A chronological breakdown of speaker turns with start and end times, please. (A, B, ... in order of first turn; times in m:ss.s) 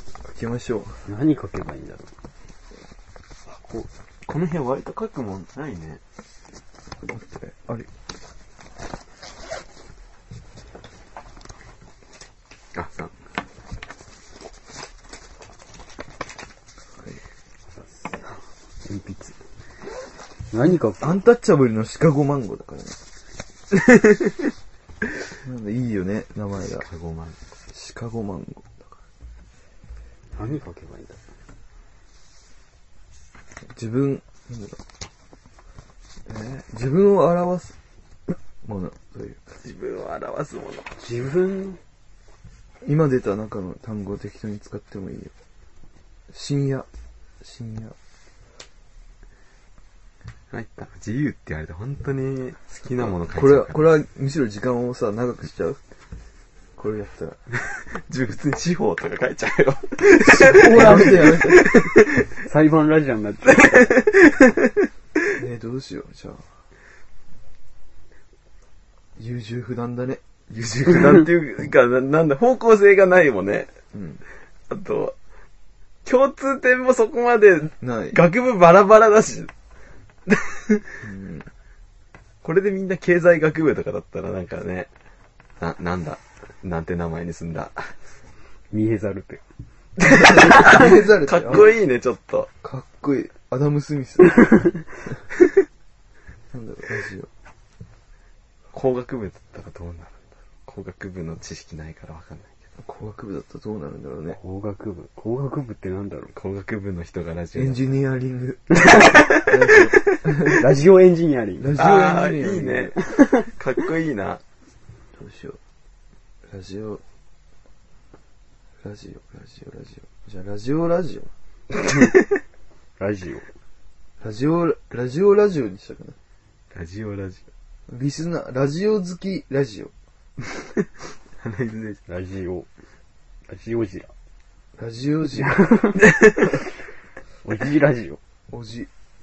0:00.2-0:01.0 A
0:01.0-0:02.1 B
0:03.6-0:03.9 B
0:04.3-0:06.0 C
0:07.0-0:07.9 A
0:12.7-0:13.1 C
0:17.8-0:19.3 B
0:20.5-0:21.2 B
0:21.0-0:23.0 A
0:23.7-0:24.4 C
0:25.4-0:26.8 A
0:26.6-0:27.4 C
0:27.7-0:28.8 A
0:30.4-0:31.2 B
0:33.7-0:34.8 A
0:36.3-0:37.8 A
0:38.6-0:39.4 A
0:39.6-0:40.9 C
0:41.0-0:41.8 B
0:42.8-0:45.3 A
0:46.3-0:46.9 A
0:47.4-0:48.0 A
0:50.5-0:53.8 C
0:53.0-0:55.8 A
0:56.8-0:57.4 A
0:57.7-1:02.3 C
1:00.2-1:01.5 B
1:00.4-1:01.7 A
1:02.4-1:03.9 B
1:03.5-1:04.9 C
1:05.4-1:06.4 A
1:09.2-1:10.2 A
1:10.5-1:13.7 C
1:13.9-1:14.2 A
1:14.7-1:15.1 C
1:16.0-1:19.5 C
1:17.8-1:18.2 A
1:20.3-1:21.0 C
1:21.0-1:21.5 A
1:22.4-1:24.9 C
1:25.6-1:27.9 C
1:28.7-1:29.4 B
1:30.0-1:32.5 C
1:30.1-1:31.7 A
1:32.6-1:34.7 A
1:36.5-1:37.3 A
1:38.7-1:42.5 C
1:42.8-1:44.4 A
1:44.4-1:46.3 B
1:46.3-1:47.9 C
1:47.5-1:50.7 A
1:48.8-1:49.2 B
1:48.8-1:50.0 C
1:50.4-1:51.7 B
1:51.6-1:52.9 A
1:51.7-1:54.4 C
1:53.0-1:53.4 B
1:55.2-1:55.6 A
1:56.5-1:57.0 A
1:58.8-2:01.3 A
2:03.0-2:03.4 B
2:04.2-2:06.2 A
2:06.7-2:07.4 C
2:07.9-2:09.9 A
2:11.4-2:12.0 C
2:12.1-2:12.7 B
2:13.5-2:14.1 B
2:14.8-2:15.8 A
2:15.4-2:16.0 B
2:16.0-2:16.5 C
2:17.4-2:18.2 B
2:18.5-2:18.9 A